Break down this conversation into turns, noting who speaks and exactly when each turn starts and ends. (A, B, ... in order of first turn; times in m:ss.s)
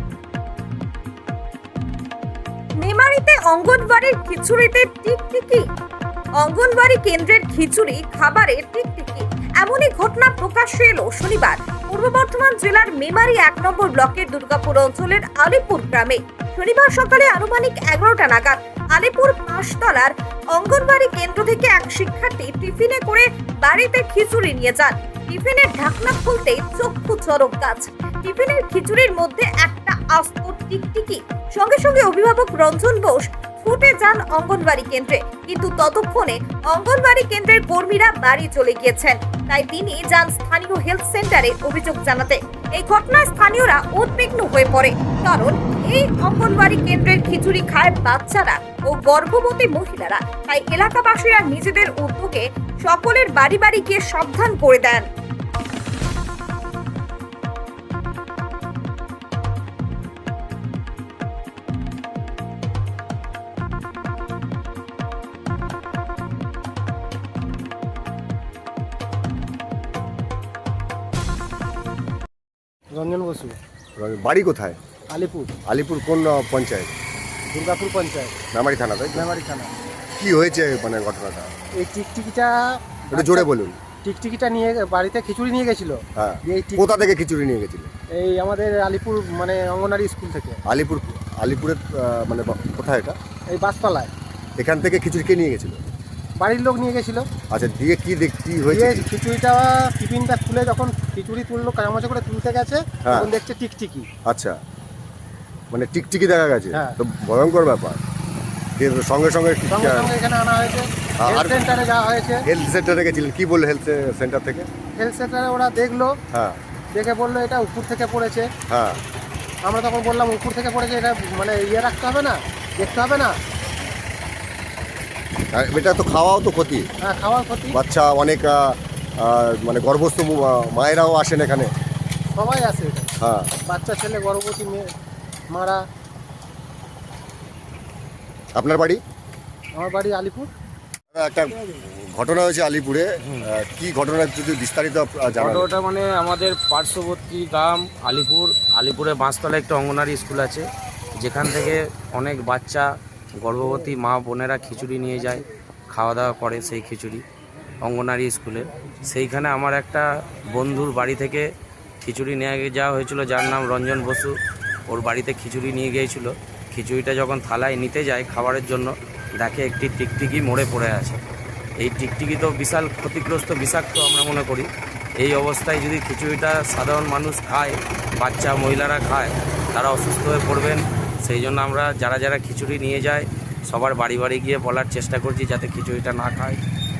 0:02.8-0:05.6 A
0:06.4-0:55.0 A
1:12.9-1:13.6 B
1:14.0-1:14.8 C
1:15.1-1:15.5 B
1:15.7-1:16.9 C
1:17.5-1:18.4 B
1:18.5-1:19.2 C
1:19.2-1:19.7 B
1:20.2-1:21.5 C
1:21.7-1:23.5 B
1:23.1-1:23.8 C
1:24.0-1:26.8 B
1:26.2-1:27.9 C
1:28.2-1:30.6 B
1:30.7-1:33.2 C
1:33.5-1:34.1 B
1:34.6-1:35.8 C
1:36.4-1:37.2 B
1:37.5-1:39.0 C
1:38.7-1:44.1 B
1:44.2-1:44.6 C
1:45.7-1:48.0 C
1:48.8-1:50.1 C
1:49.7-1:52.4 B
1:51.2-1:51.6 C
1:52.4-1:54.7 C
1:55.0-1:56.1 B
1:56.3-1:56.6 C
1:56.9-1:58.5 B
1:58.7-1:59.0 C
1:59.6-2:03.4 B
2:05.5-2:06.9 C
2:07.0-2:07.7 B
2:07.7-2:11.7 C
2:12.3-2:13.1 B
2:13.2-2:13.5 C
2:13.7-2:14.9 B
2:15.5-2:15.8 B
2:18.6-2:19.0 C
2:19.7-2:20.5 B
2:21.1-2:25.7 C
2:25.4-2:30.6 D
2:31.2-2:32.9 D
2:33.4-2:37.2 D
2:37.8-2:41.4 D
2:42.0-2:44.3 D
2:44.9-2:51.2 D
2:51.8-2:54.7 D
2:55.2-3:06.6 D